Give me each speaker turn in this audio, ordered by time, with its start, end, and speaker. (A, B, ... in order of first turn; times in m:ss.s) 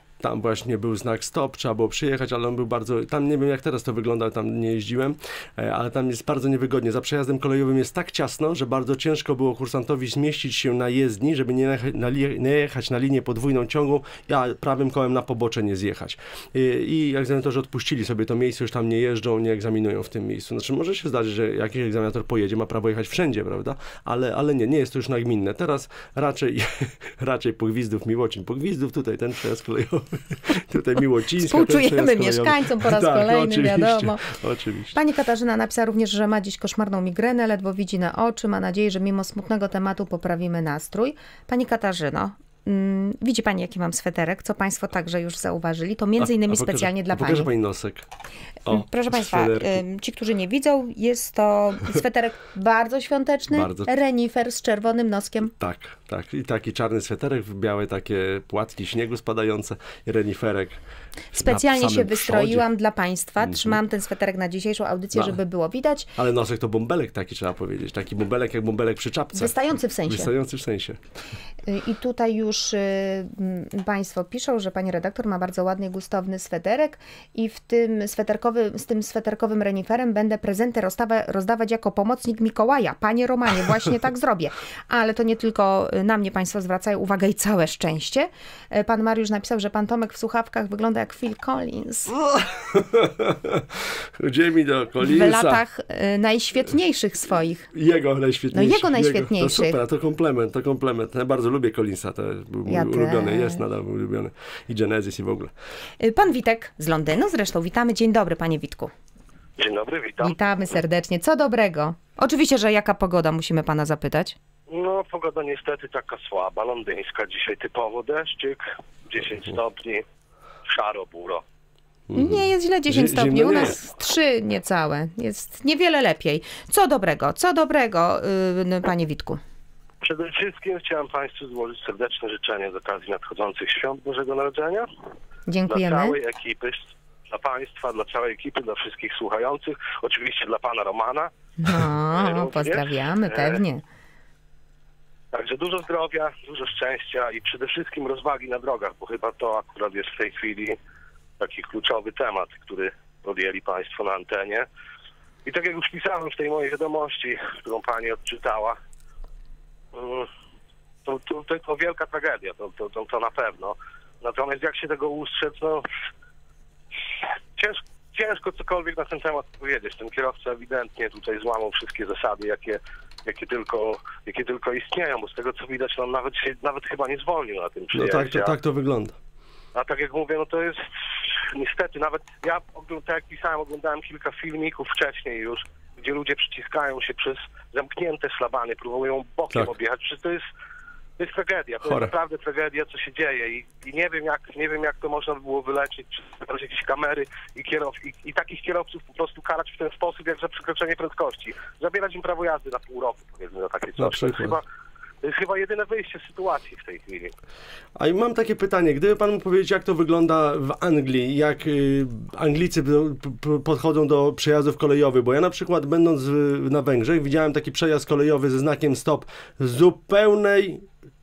0:00.2-0:35.0 A
0:31.4-0:34.2 B
0:34.9-0:47.5 B
0:46.2-0:48.1 A
0:48.7-0:49.8 A
0:48.7-0:55.5 B
0:53.5-0:53.9 A
0:55.6-1:00.8 A
1:01.3-1:02.6 A
1:01.3-1:06.1 B
1:03.4-1:03.8 A
1:06.2-1:11.0 A
1:09.3-1:10.3 B
1:11.6-1:32.1 B
1:32.2-1:35.6 A
1:35.0-1:37.7 B
1:37.7-1:45.5 A
1:38.5-1:39.8 B
1:42.7-1:43.6 B
1:46.0-1:48.9 B
1:49.6-1:50.4 C
1:50.2-1:54.4 B
1:54.7-2:00.0 C
2:00.7-2:01.4 C
2:02.1-2:03.8 A
2:02.2-2:09.4 B
2:10.0-2:14.9 C
2:15.5-2:16.2 B
2:15.7-2:21.3 C
2:21.6-2:23.8 B
2:22.1-2:23.6 C
2:25.3-2:30.8 C
2:31.4-2:34.6 C
2:35.4-2:38.8 C
2:39.9-2:40.3 C
2:41.0-2:45.9 C
2:47.6-2:58.6 C
2:57.9-2:59.2 A
2:59.8-3:10.4 C
3:11.2-3:24.6 C
3:11.8-3:12.1 A
3:24.0-3:24.6 A
3:25.2-3:27.4 C
3:28.0-3:40.8 A